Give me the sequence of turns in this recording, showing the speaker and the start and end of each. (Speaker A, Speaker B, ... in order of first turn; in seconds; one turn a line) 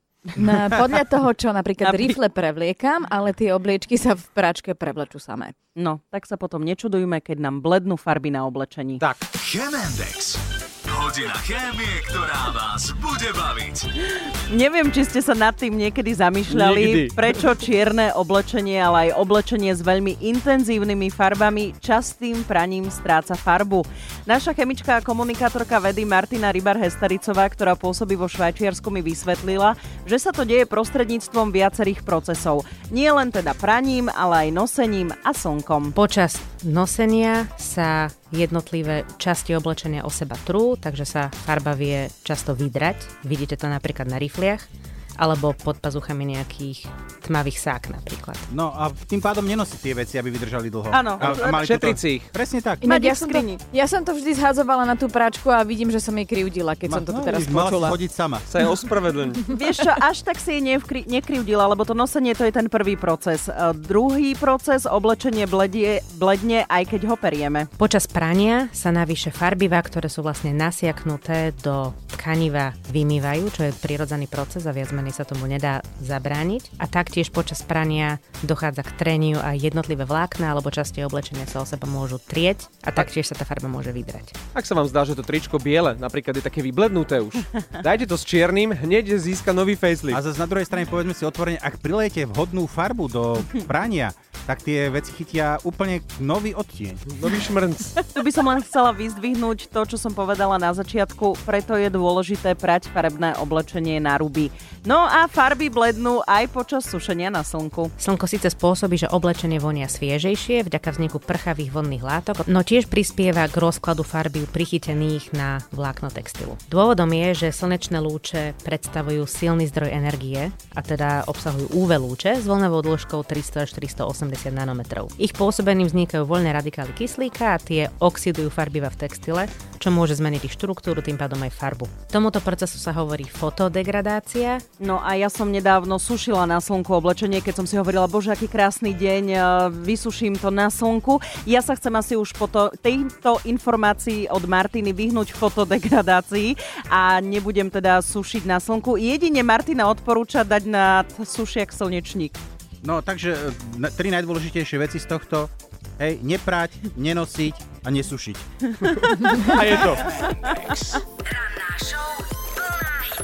Speaker A: 0.4-5.5
Speaker B: 1.8-2.1
Speaker B: 5.8-9.0
Speaker C: 9.0-9.4
Speaker D: 9.4-13.8
Speaker B: 14.5-36.0
Speaker C: 16.5-17.2
Speaker E: 36.0-44.7
Speaker E: 45.2-48.5
Speaker F: 48.5-52.9
Speaker B: 50.9-51.7
Speaker C: 51.2-52.3
Speaker A: 52.8-58.0
Speaker B: 52.9-53.6
Speaker F: 56.9-58.5
Speaker C: 58.5-59.4
Speaker B: 59.5-67.7
Speaker E: 67.8-84.4
Speaker C: 84.5-90.2
Speaker F: 90.1-97.1
Speaker C: 97.1-98.0
Speaker B: 98.2-107.9
Speaker E: 108.0-134.6
Speaker B: 134.8-152.4
Speaker F: 152.8-158.5
Speaker B: 158.8-160.9
Speaker C: 159.5-160.1
Speaker E: 161.5-162.1